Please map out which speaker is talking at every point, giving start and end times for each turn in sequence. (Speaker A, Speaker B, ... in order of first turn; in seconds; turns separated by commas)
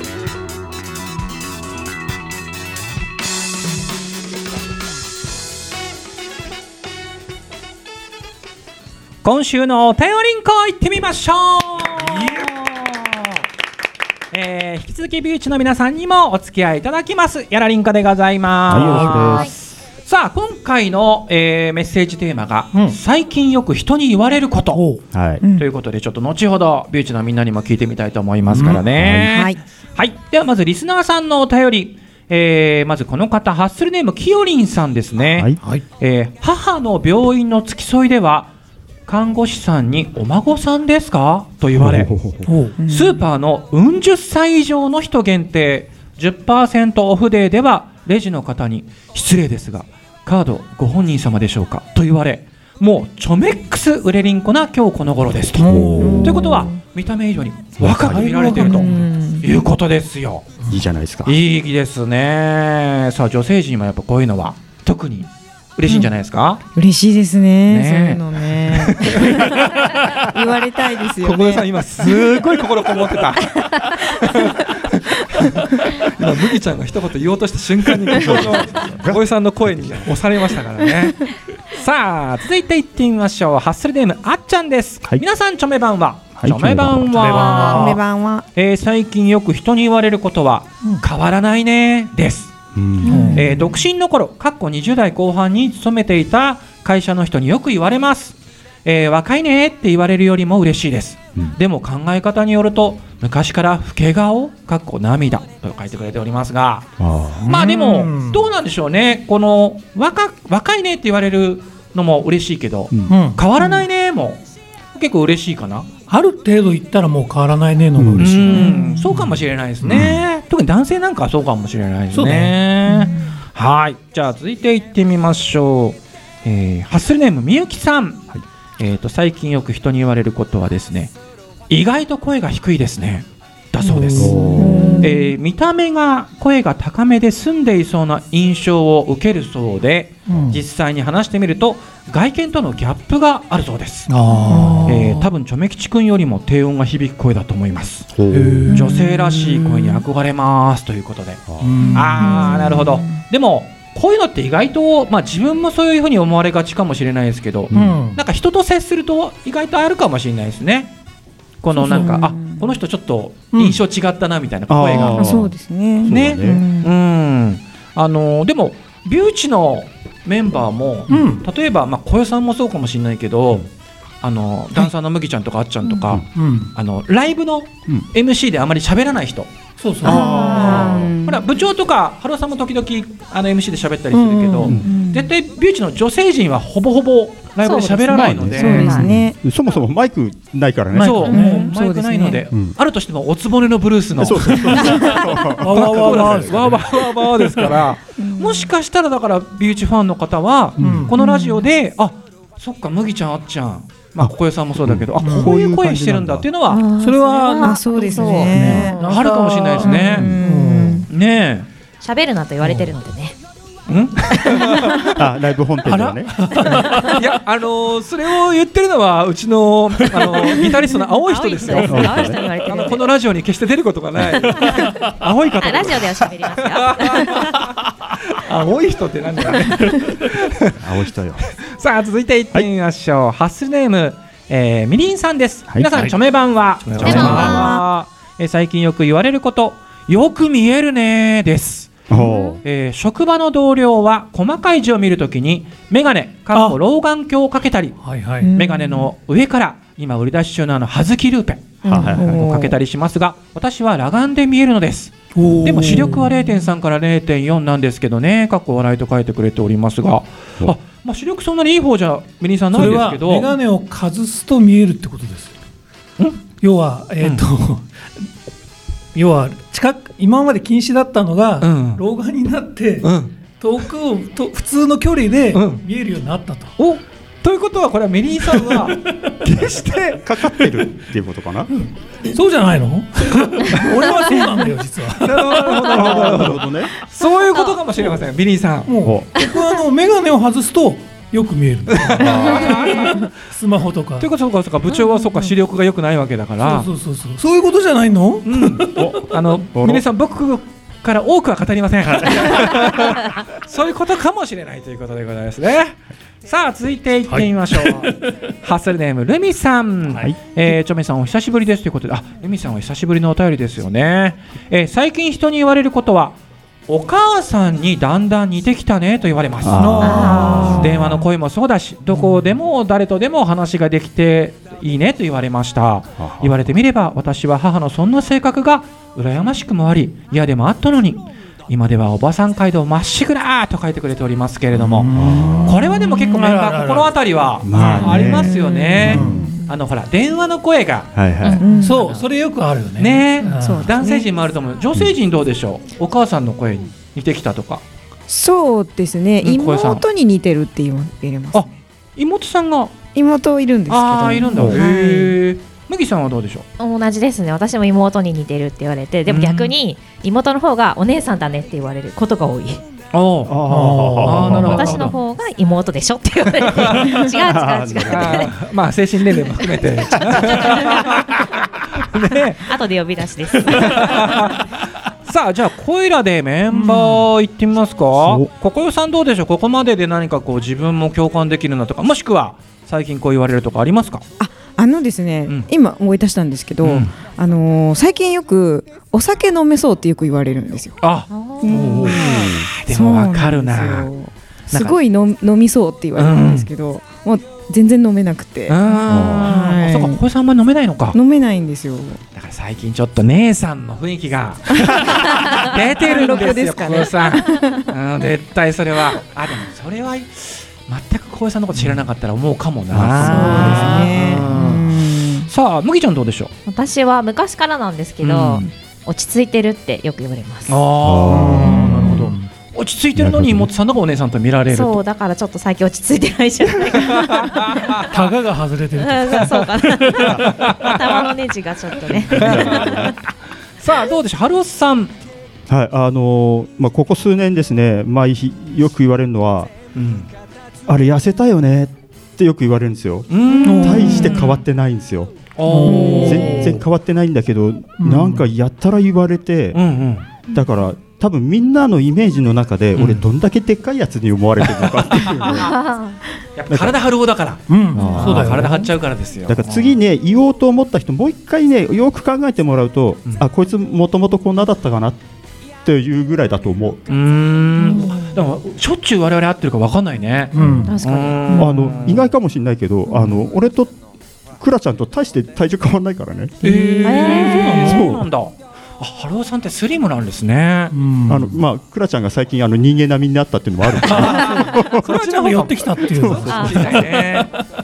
Speaker A: 9.2-13.3, Speaker A: 14.3-24.8, Speaker B: 18.7-19.5, Speaker C: 18.7-19.4, Speaker D: 19.3-19.5, Speaker C: 22.7-23.0, Speaker C: 24.7-25.0, Speaker B: 25.1-25.4, Speaker A: 25.6-38.5, Speaker C: 28.5-28.8, Speaker B: 28.9-29.4, Speaker E: 29.3-29.6, Speaker B: 35.2-35.6, Speaker A: 39.1-42.1, Speaker B: 41.8-42.5, Speaker C: 42.5-42.8, Speaker E: 42.8-43.2, Speaker A: 42.9-60.5, Speaker C: 55.6-56.5, Speaker B: 55.6-56.2, Speaker E: 56.0-56.8, Speaker B: 57.8-58.3, Speaker C: 58.0-59.0, Speaker E: 58.5-59.5, Speaker B: 60.7-61.4, Speaker A: 61.3-66.6, Speaker E: 66.8-69.6, Speaker A: 67.7-70.2, Speaker E: 70.1-71.7, Speaker A: 71.2-88.0, Speaker B: 78.1-80.1, Speaker B: 86.4-87.1, Speaker C: 87.1-88.0, Speaker E: 87.6-88.5, Speaker A: 88.5-92.5, Speaker B: 92.8-93.2, Speaker C: 93.0-93.7, Speaker E: 93.0-93.6, Speaker A: 93.3-114.4, Speaker B: 107.0-107.5, Speaker C: 107.4-108.5, Speaker B: 112.9-113.2, Speaker C: 113.1-113.5, Speaker A: 114.9-115.9, Speaker C: 116.1-119.1, Speaker B: 118.0-118.5, Speaker A: 118.2-131.1, Speaker E: 118.5-119.0, Speaker C: 119.8-120.1, Speaker B: 119.9-120.2, Speaker C: 122.1-122.5, Speaker E: 122.9-123.3, Speaker A: 131.7-144.2, Speaker C: 133.8-135.0, Speaker B: 134.2-135.0, Speaker E: 134.6-135.3, Speaker C: 140.3-140.6, Speaker C: 144.1-145.2, Speaker E: 144.5-144.9, Speaker A: 144.8-148.2, Speaker B: 148.1-148.8, Speaker C: 148.3-148.9, Speaker A: 148.7-160.9, Speaker E: 148.8-150.0, Speaker B: 151.5-151.9, Speaker C: 151.6-152.6, Speaker E: 151.8-153.2, Speaker C: 157.7-158.2, Speaker B: 157.7-158.0, Speaker A: 161.6-165.5, Speaker E: 161.7-162.8, Speaker C: 163.5-163.8, Speaker B: 164.7-166.6, Speaker E: 164.9-166.9, Speaker A: 166.1-173.7, Speaker C: 171.1-171.4, Speaker A: 174.2-179.5, Speaker C: 176.3-176.7, Speaker C: 179.8-180.7, Speaker E: 180.0-181.4, Speaker A: 180.0-189.0, Speaker D: 180.1-180.9, Speaker C: 184.1-184.8, Speaker E: 184.8-185.3, Speaker D: 187.6-189.1, Speaker B: 188.1-191.3, Speaker E: 188.5-189.3, Speaker A: 190.9-206.8, Speaker C: 191.0-191.7, Speaker E: 191.3-192.4, Speaker B: 194.2-196.8, Speaker C: 195.5-197.8, Speaker E: 198.2-198.7, Speaker C: 200.8-201.2, Speaker E: 201.2-201.7, Speaker B: 204.2-206.5, Speaker C: 205.2-205.6, Speaker D: 206.7-209.0, Speaker C: 207.0-211.1, Speaker E: 207.6-209.0, Speaker A: 209.1-210.3, Speaker E: 209.8-211.1, Speaker A: 211.1-211.7, Speaker D: 212.0-213.4, Speaker C: 212.6-213.0, Speaker A: 213.9-215.1, Speaker B: 215.1-216.6, Speaker C: 215.9-217.2, Speaker A: 216.9-230.8, Speaker D: 221.2-223.1, Speaker B: 221.7-222.4, Speaker D: 224.6-224.9, Speaker C: 224.6-225.1, Speaker D: 225.6-227.6, Speaker C: 229.7-230.1, Speaker B: 230.7-231.5, Speaker A: 231.5-242.1, Speaker B: 235.7-236.1, Speaker C: 236.9-237.4, Speaker B: 237.0-237.7, Speaker D: 237.0-237.8, Speaker E: 237.2-237.8, Speaker B: 242.1-242.4, Speaker E: 242.1-242.6, Speaker D: 242.3-242.6, Speaker A: 242.6-263.5, Speaker C: 246.5-246.8, Speaker C: 248.0-248.5, Speaker E: 248.4-249.1, Speaker B: 251.8-252.3, Speaker E: 251.9-252.8, Speaker C: 255.3-256.3, Speaker C: 262.7-265.5, Speaker C: 266.6-267.9, Speaker C: 269.1-276.7, Speaker A: 271.6-272.0, Speaker A: 273.0-273.4, Speaker A: 275.5-275.8, Speaker A: 276.8-280.2, Speaker C: 278.5-279.3, Speaker B: 280.1-281.7, Speaker C: 282.3-285.9, Speaker A: 285.2-288.9, Speaker B: 285.9-286.9, Speaker D: 287.5-287.8, Speaker C: 288.9-294.3, Speaker B: 289.0-289.3, Speaker A: 291.9-293.3, Speaker B: 292.2-292.7, Speaker A: 294.2-296.9, Speaker C: 296.6-299.1, Speaker A: 298.4-341.1, Speaker B: 298.8-300.0, Speaker B: 302.1-302.9, Speaker C: 307.3-308.3, Speaker B: 319.6-320.7, Speaker C: 319.7-321.0, Speaker D: 320.0-321.0, Speaker B: 326.2-326.6, Speaker C: 334.8-337.1, Speaker B: 335.1-335.8, Speaker B: 337.6-339.5, Speaker C: 337.7-338.3, Speaker E: 338.1-339.7, Speaker C: 339.0-339.5, Speaker B: 341.1-341.6, Speaker D: 341.4-341.8, Speaker E: 341.6-342.0, Speaker C: 341.8-343.9, Speaker A: 341.8-342.2, Speaker A: 343.0-347.8, Speaker E: 343.4-344.3, Speaker E: 348.3-351.7, Speaker A: 349.4-350.1, Speaker A: 351.5-352.9, Speaker E: 353.1-355.3, Speaker A: 353.9-356.7, Speaker B: 354.5-354.8, Speaker D: 356.8-362.8, Speaker A: 359.3-359.7, Speaker A: 363.1-363.6, Speaker B: 363.5-364.7, Speaker C: 363.7-365.1, Speaker A: 364.2-365.1, Speaker D: 364.6-368.5, Speaker A: 366.7-367.1, Speaker B: 367.3-368.5, Speaker A: 368.1-372.8, Speaker D: 370.1-371.2, Speaker D: 372.6-374.1, Speaker A: 373.7-384.2, Speaker C: 373.8-374.3, Speaker C: 376.7-377.3, Speaker B: 378.2-378.5, Speaker E: 384.4-391.0, Speaker A: 386.8-387.1, Speaker A: 391.0-394.1, Speaker D: 391.3-391.8, Speaker E: 391.6-400.2, Speaker B: 392.1-392.7, Speaker A: 394.7-395.0, Speaker A: 396.2-396.7, Speaker A: 398.7-401.2, Speaker B: 399.1-399.5, Speaker E: 401.1-402.2, Speaker A: 402.3-416.5, Speaker E: 404.8-407.9, Speaker B: 412.9-414.4, Speaker E: 413.2-415.5, Speaker D: 416.7-420.8, Speaker A: 418.2-418.7, Speaker A: 420.7-425.0, Speaker B: 421.0-422.1, Speaker C: 421.3-422.5, Speaker B: 423.2-423.7, Speaker D: 424.7-428.0, Speaker A: 427.1-428.1, Speaker C: 428.0-430.4, Speaker D: 429.0-433.1, Speaker A: 430.0-431.3, Speaker A: 432.3-435.1, Speaker B: 432.3-433.2, Speaker B: 435.7-439.7, Speaker A: 439.9-440.3, Speaker B: 440.9-445.5, Speaker A: 443.3-444.6, Speaker C: 443.6-444.4, Speaker A: 445.6-446.8, Speaker C: 445.6-446.8, Speaker E: 445.9-446.4, Speaker B: 446.2-449.8, Speaker C: 448.0-448.4, Speaker A: 449.7-450.3, Speaker B: 450.5-455.8, Speaker A: 453.0-453.2, Speaker A: 454.7-459.9, Speaker D: 455.8-456.1, Speaker B: 456.7-457.0, Speaker C: 457.7-458.9, Speaker B: 457.9-458.9, Speaker B: 459.4-465.2, Speaker B: 465.8-467.1, Speaker A: 467.1-472.3, Speaker D: 467.8-468.3, Speaker C: 470.5-471.0, Speaker D: 470.9-471.7, Speaker B: 471.5-474.0, Speaker B: 474.6-476.6, Speaker C: 476.6-478.1, Speaker A: 476.6-481.0, Speaker D: 477.0-478.0, Speaker B: 477.8-478.2, Speaker C: 480.9-481.6, Speaker B: 481.3-485.1, Speaker C: 484.0-487.6, Speaker A: 484.1-487.5, Speaker B: 486.1-487.0, Speaker D: 486.5-486.8